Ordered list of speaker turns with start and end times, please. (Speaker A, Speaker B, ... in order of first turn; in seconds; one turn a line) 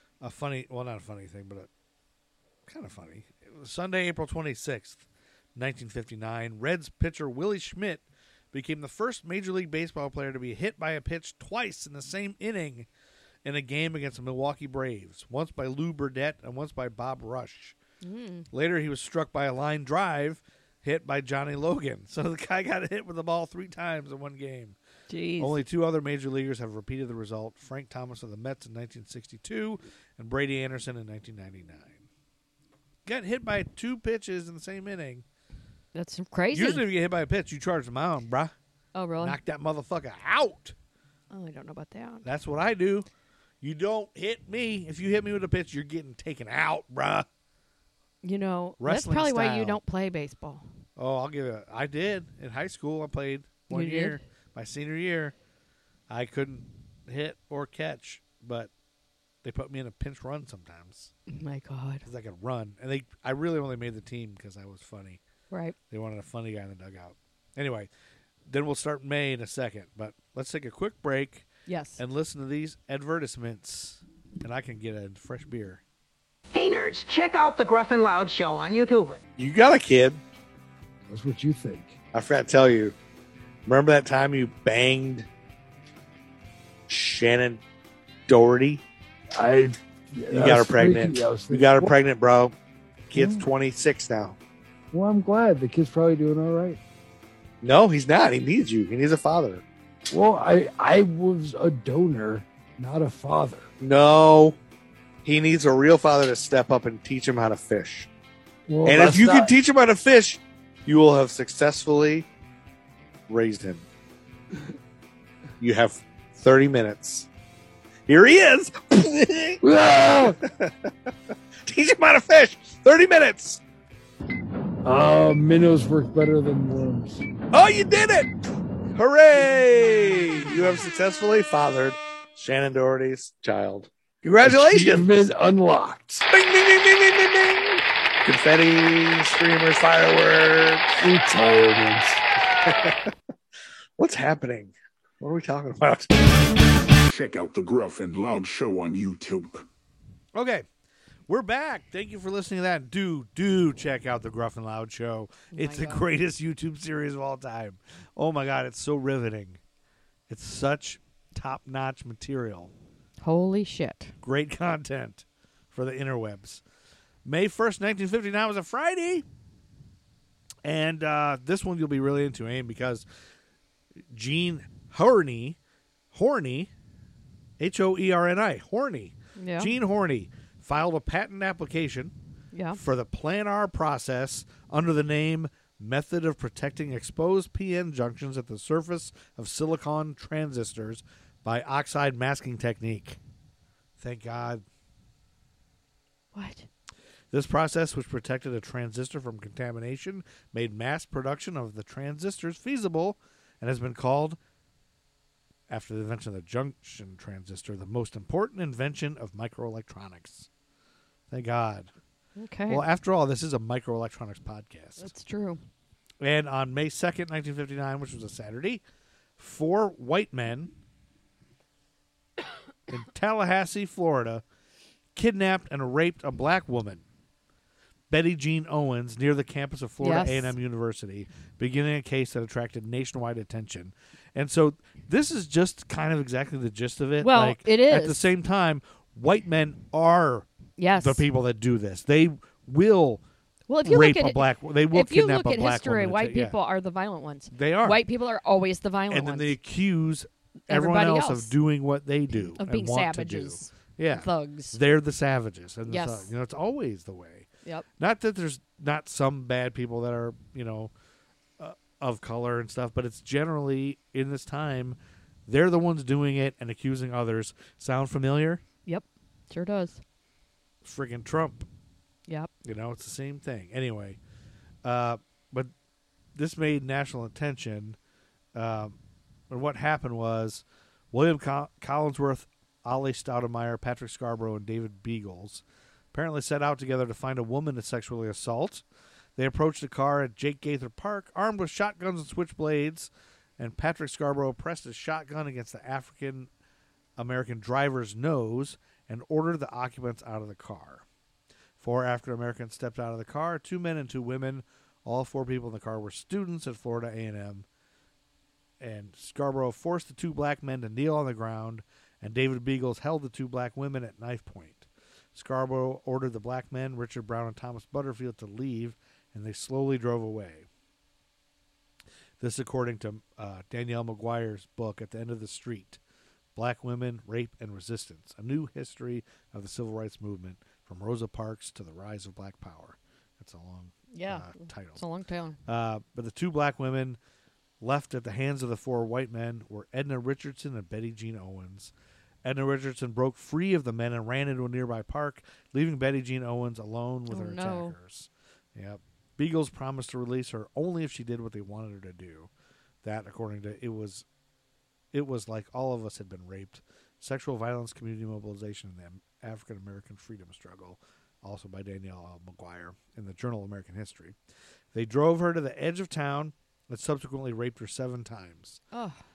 Speaker A: 0.2-1.7
Speaker A: 2.6-12.9
Speaker A: 13.4-17.8
Speaker B: 18.0-18.5
Speaker A: 18.5-24.8
Speaker B: 25.1-25.6
Speaker A: 25.4-32.0
Speaker A: 33.0-35.2
Speaker B: 35.9-36.8
Speaker A: 36.5-38.5
Speaker B: 38.9-39.4
Speaker A: 39.2-40.8
Speaker B: 41.3-42.3
Speaker A: 42.2-43.1
Speaker A: 43.6-47.3
Speaker B: 48.2-50.7
Speaker A: 48.8-49.8
Speaker A: 51.0-55.3
Speaker B: 53.7-54.2
Speaker A: 56.1-58.7
Speaker A: 59.4-61.1
Speaker B: 61.3-62.0
Speaker A: 62.0-65.2
Speaker B: 65.5-65.8
Speaker A: 65.9-67.9
Speaker A: 68.5-71.5
Speaker B: 71.7-72.0
Speaker A: 72.0-75.8
Speaker C: 76.5-79.2
Speaker A: 79.4-80.2
Speaker D: 81.1-82.0
Speaker A: 82.1-83.0
Speaker A: 83.7-85.3
Speaker A: 86.9-87.6
Speaker A: 88.3-88.8
Speaker D: 89.4-91.9
Speaker A: 90.3-92.5
Speaker A: 93.1-94.4
Speaker D: 93.1-93.4
Speaker D: 94.9-96.8
Speaker A: 97.6-99.6
Speaker D: 100.1-103.7
Speaker A: 103.8-104.6
Speaker A: 105.2-108.1
Speaker D: 108.7-109.5
Speaker A: 108.8-112.3
Speaker A: 113.3-113.8
Speaker A: 115.6-117.3
Speaker A: 118.1-119.6
Speaker D: 119.6-120.4
Speaker A: 120.4-120.9
Speaker A: 121.6-123.6
Speaker D: 124.8-127.2
Speaker A: 127.5-128.3
Speaker A: 128.9-135.2
Speaker D: 134.4-136.2
Speaker A: 136.3-140.9
Speaker D: 141.0-142.2
Speaker A: 142.6-143.1
Speaker A: 144.0-146.1
Speaker E: 147.1-149.6
Speaker A: 150.3-150.7
Speaker A: 151.3-159.6
Speaker B: 155.5-156.0
Speaker A: 160.3-162.7
Speaker B: 163.2-164.1
Speaker A: 164.2-166.6
Speaker A: 167.2-169.2
Speaker A: 170.6-173.0
Speaker A: 174.1-175.6
Speaker A: 176.1-176.7
Speaker A: 177.6-182.1
Speaker B: 179.4-179.7
Speaker B: 182.5-182.8
Speaker A: 182.7-193.2
Speaker A: 194.0-194.6
Speaker B: 196.3-196.7
Speaker A: 197.3-204.4
Speaker A: 205.7-210.5
Speaker A: 211.3-211.9
Speaker B: 212.4-212.8
Speaker A: 212.7-215.1
Speaker B: 215.0-215.6
Speaker A: 216.2-218.8
Speaker A: 219.4-220.7
Speaker A: 222.9-224.4
Speaker A: 225.1-227.0
Speaker A: 228.1-243.2
Speaker B: 230.0-230.5
Speaker B: 237.2-238.2
Speaker B: 240.8-241.2
Speaker B: 243.7-249.6
Speaker A: 243.8-246.6
Speaker A: 247.5-248.0
Speaker A: 249.1-257.5
Speaker B: 250.7-251.5
Speaker B: 252.4-254.8
Speaker B: 255.9-256.3
Speaker A: 258.0-260.9
Speaker A: 261.6-268.6
Speaker B: 268.9-270.0
Speaker A: 270.8-271.7
Speaker A: 272.6-274.2
Speaker A: 274.8-275.7
Speaker A: 276.3-278.0
Speaker A: 278.5-279.0
Speaker A: 279.5-288.8
Speaker A: 289.4-296.5
Speaker A: 297.2-301.0
Speaker A: 301.8-307.6
Speaker A: 308.8-320.7
Speaker A: 322.4-326.0
Speaker A: 326.6-335.0
Speaker B: 334.1-335.6
Speaker A: 335.6-337.2
Speaker A: 337.8-341.9
Speaker A: 342.4-352.5
Speaker B: 347.3-347.9
Speaker A: 353.0-354.2
Speaker A: 355.1-364.4
Speaker A: 364.9-368.8
Speaker B: 368.9-369.2